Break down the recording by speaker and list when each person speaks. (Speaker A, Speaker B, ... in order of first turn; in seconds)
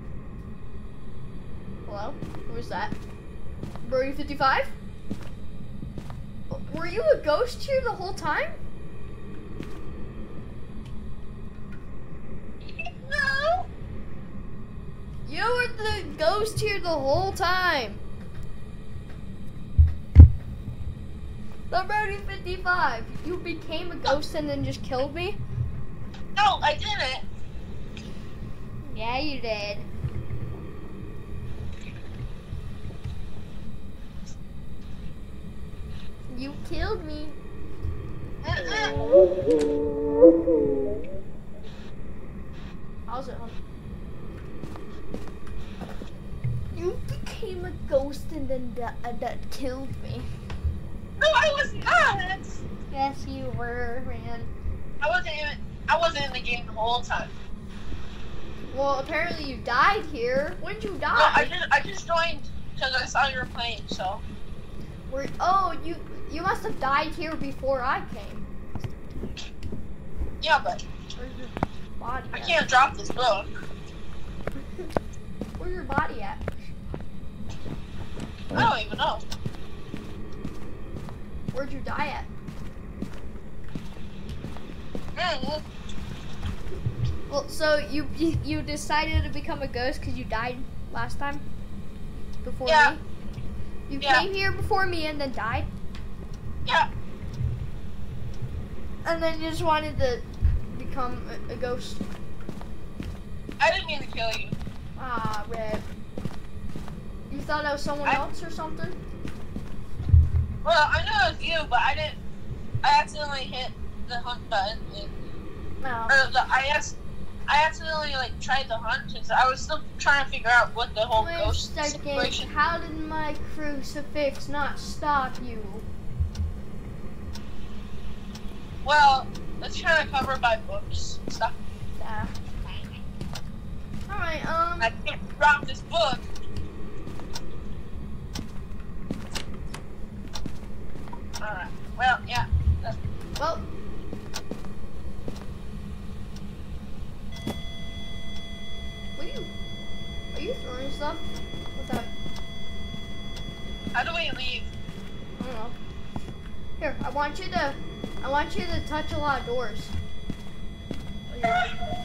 Speaker A: 1.9-3.0, 3.8-4.7, 6.5-8.6, 15.2-18.0, 21.7-25.4, 28.8-29.9, 36.3-37.4, 38.6-39.8, 40.3-40.7, 43.1-43.6, 46.7-50.3, 52.9-54.5, 58.7-61.5, 65.1-68.4, 71.2-72.6, 74.6-74.9, 75.6-76.7, 81.5-82.3, 87.3-91.4, 92.4-93.0, 93.9-95.7, 99.0-102.0, 105.0-105.9, 107.3-109.0, 115.8-116.2, 121.1-125.9, 132.0-132.3, 134.1-134.9, 143.4-143.7, 149.2-149.5, 150.3-152.1, 155.4-155.8, 156.8-159.9, 161.3-161.7
Speaker B: 12.7-13.7, 26.4-27.2, 38.4-39.3, 51.2-52.6, 55.0-57.3, 61.1-64.2, 70.4-70.8, 72.3-73.5, 78.5-79.2, 85.2-85.6, 92.7-92.9, 94.0-94.3, 103.6-104.5, 110.6-112.2, 112.8-115.1, 116.1-117.0, 117.5-122.5, 128.8-131.5, 132.7-132.9, 134.8-136.2, 141.4-143.0, 153.9-154.7